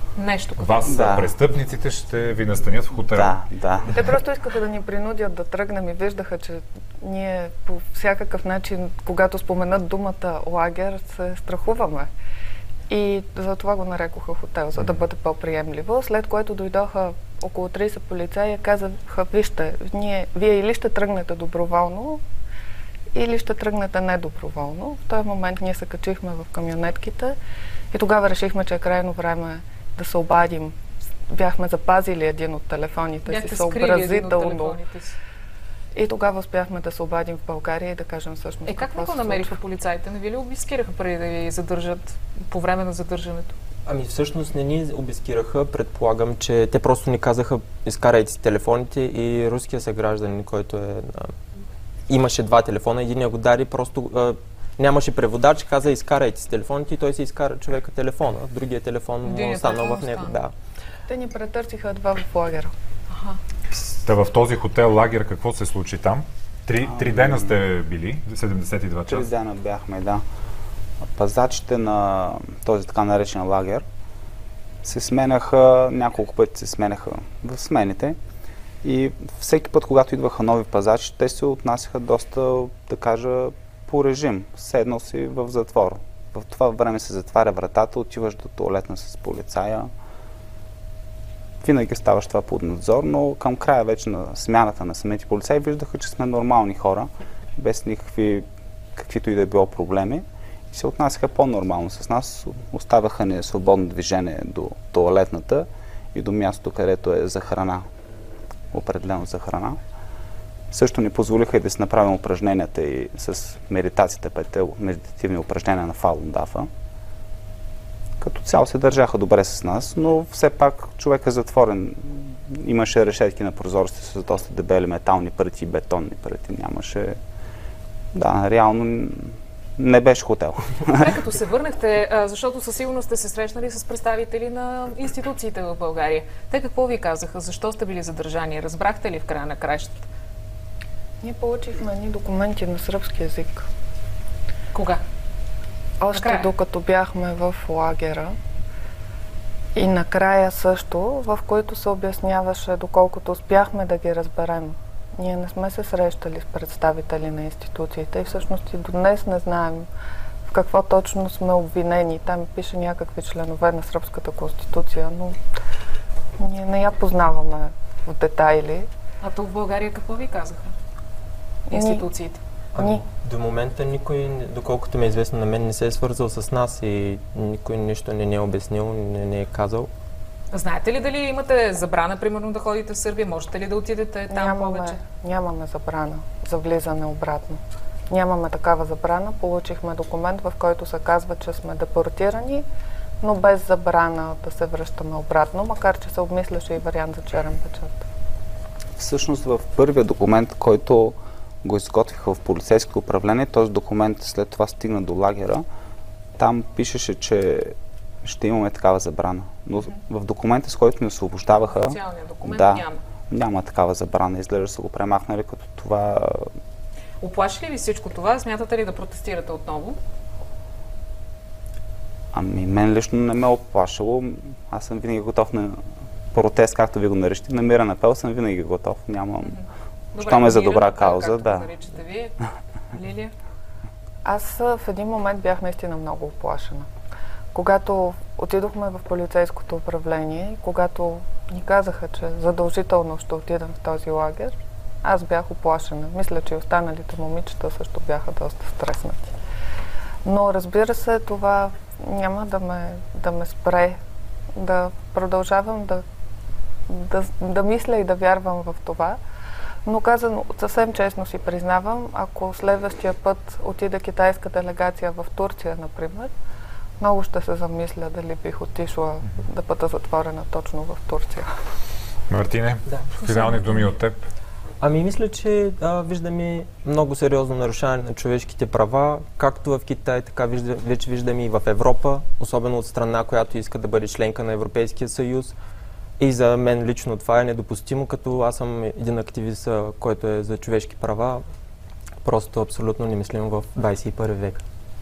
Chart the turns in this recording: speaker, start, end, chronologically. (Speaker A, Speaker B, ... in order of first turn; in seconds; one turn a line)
Speaker A: 0.1-0.8
Speaker B: 0.6-3.3
Speaker C: 0.9-1.3
Speaker C: 3.1-3.9
Speaker D: 3.9-12.1
Speaker D: 12.9-22.2
Speaker D: 23.1-27.4
Speaker D: 27.9-30.8
Speaker D: 31.3-34.8
Speaker A: 33.2-35.1
Speaker D: 35.9-39.6
Speaker A: 38.6-43.5
Speaker E: 43.9-51.3
Speaker E: 52.1-60.5
Speaker A: 59.2-60.4
Speaker D: 61.1-62.7
Speaker A: 63.1-63.4
Speaker B: 64.0-69.3
Speaker C: 66.9-67.5
Speaker C: 69.1-70.2
Speaker C: 71.1-73.8
Speaker C: 74.8-78.2
Speaker C: 78.8-89.9
Speaker C: 91.6-107.8
Speaker C: 108.7-109.8
Speaker C: 110.7-116.7
Speaker C: 118.2-127.2
Speaker C: 128.1-131.1
Speaker A: 130.9-140.1
Speaker D: 141.2-143.7
Speaker A: 144.7-145.0
Speaker D: 146.0-148.3
Speaker A: 146.1-146.5
Speaker D: 149.7-159.9
Speaker D: 160.4-165.4
Speaker D: 166.4-168.9
Speaker A: 169.2-170.7
Speaker D: 171.7-172.1
Speaker A: 171.7-172.4
Speaker E: 172.8-179.9
Speaker A: 180.5-185.0
Speaker D: 184.3-192.6
Speaker D: 193.2-198.0
Speaker C: 199.0-205.6
Speaker C: 206.4-216.5
Speaker A: 211.7-213.0
Speaker A: 217.2-220.0
Speaker C: 222.3-229.6
Speaker A: 229.4-232.3
Speaker C: 230.2-231.7
Speaker A: 232.9-233.3
Speaker D: 234.2-236.9
Speaker D: 237.5-249.3
Speaker D: 250.2-254.0
Speaker D: 254.5-256.0
Speaker D: 256.9-259.2
Speaker D: 259.9-266.3
Speaker D: 267.0-271.5
Speaker B: 272.3-274.2
Speaker A: 273.2-273.9
Speaker E: 274.8-285.6
Speaker E: 286.2-291.4
Speaker E: 292.2-294.6